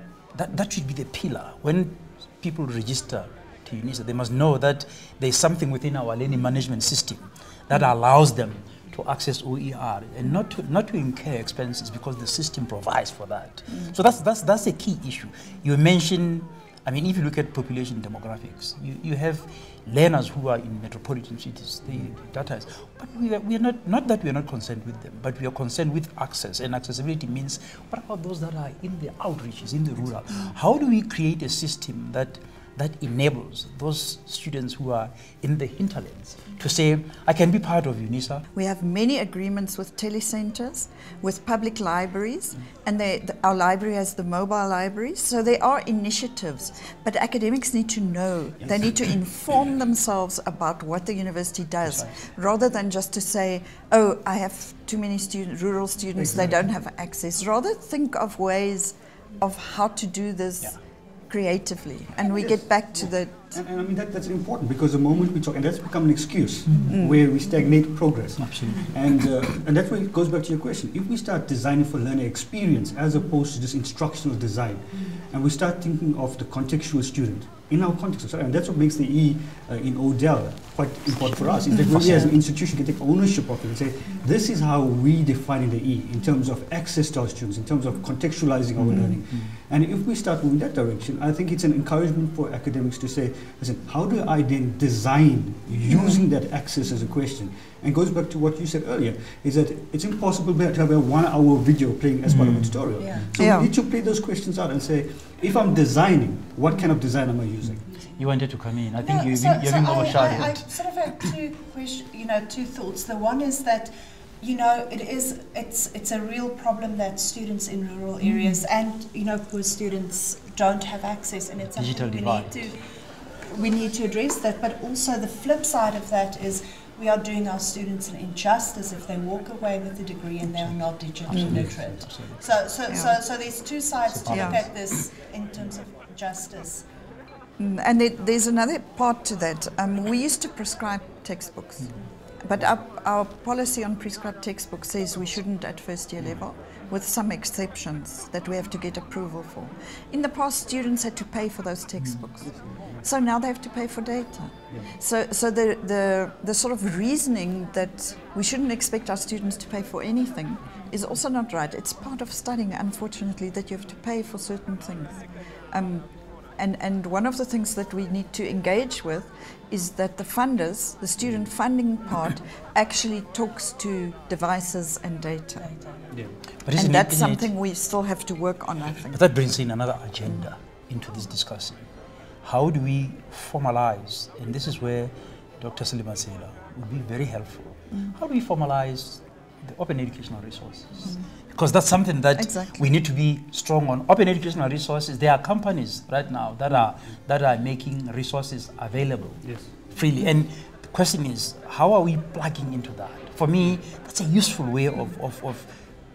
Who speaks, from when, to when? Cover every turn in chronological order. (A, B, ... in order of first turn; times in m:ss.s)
0:00.3-0:38.5 A
0:38.6-1:00.8 B
0:56.2-0:56.6 C
1:01.3-1:03.6 B
1:02.3-1:47.8 C
1:06.7-1:07.0 A
1:06.9-1:07.2 B
1:08.4-1:09.0 A
1:21.7-1:22.3 A
1:28.8-1:29.5 A
1:35.9-1:36.2 B
1:42.3-1:42.8 A
1:43.0-1:43.4 D
1:43.4-1:43.7 B
1:48.2-1:51.3 A
1:49.0-2:02.8 D
2:01.7-2:02.8 A
2:03.4-2:16.8 D
2:10.6-2:12.4 A
2:11.3-2:11.6 B
2:12.9-2:13.2 B
2:14.1-2:14.7 A
2:14.3-2:14.7 B
2:17.6-2:55.7 B
2:32.5-2:32.9 C
2:55.7-2:56.1 D
2:56.6-2:57.5 A
2:56.8-2:59.2 B
2:59.1-3:01.9 A
3:02.4-3:25.7 A
3:12.4-3:12.8 B
3:19.4-3:19.7 C